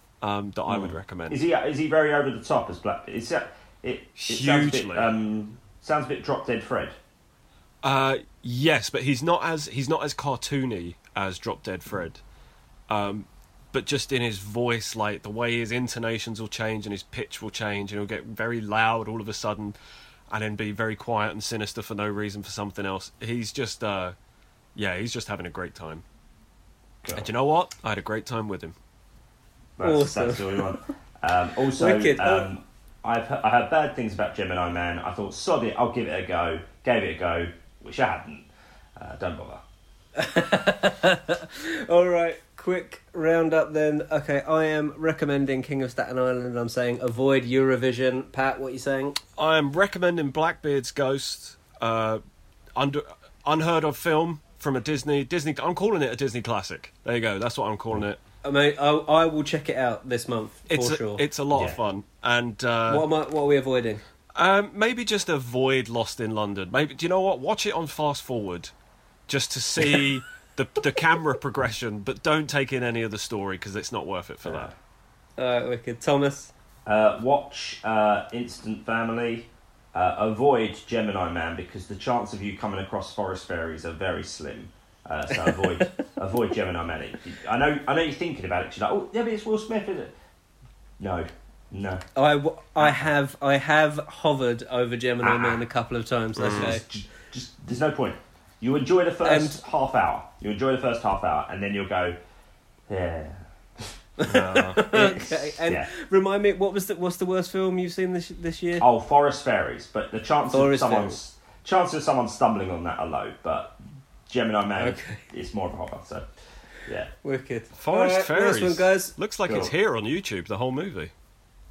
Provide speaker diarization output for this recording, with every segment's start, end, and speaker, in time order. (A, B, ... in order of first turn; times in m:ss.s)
0:00.2-0:01.4 A
0:00.7-0:07.0 B
0:04.2-0:05.1 A
0:07.8-0:12.2 A
0:12.9-0:19.8 A
0:20.3-0:24.2 A
0:24.8-0:26.0 A
0:27.0-0:27.3 B
0:27.1-0:28.8 A
0:29.8-0:39.6 B
0:29.8-0:30.8 C
0:31.8-0:32.5 C
0:40.2-0:49.2 C
0:49.4-0:52.2 A
0:52.8-0:58.2 A
0:58.4-1:01.2 C
1:00.7-1:03.1 A
1:01.5-1:01.8 B
1:02.9-1:04.0 C
1:04.4-1:08.7 A
1:09.3-1:14.7 A
1:14.4-1:14.7 B
1:15.4-1:16.5 C
1:16.9-1:30.1 B
1:31.0-1:32.0 B
1:32.2-1:36.8 C
1:32.8-1:33.0 B
1:35.2-1:35.6 B
1:36.4-1:36.8 A
1:36.4-1:42.2 B
1:39.2-1:39.6 C
1:42.9-1:43.4 B
1:44.2-1:48.8 C
1:44.3-1:44.8 A
1:44.8-1:45.9 B
1:48.8-1:56.2 B
1:50.5-1:51.2 C
1:54.8-1:55.3 C
1:56.9-1:57.1 B
1:57.2-1:59.2 C
1:57.8-2:01.1 A
1:59.5-1:59.7 B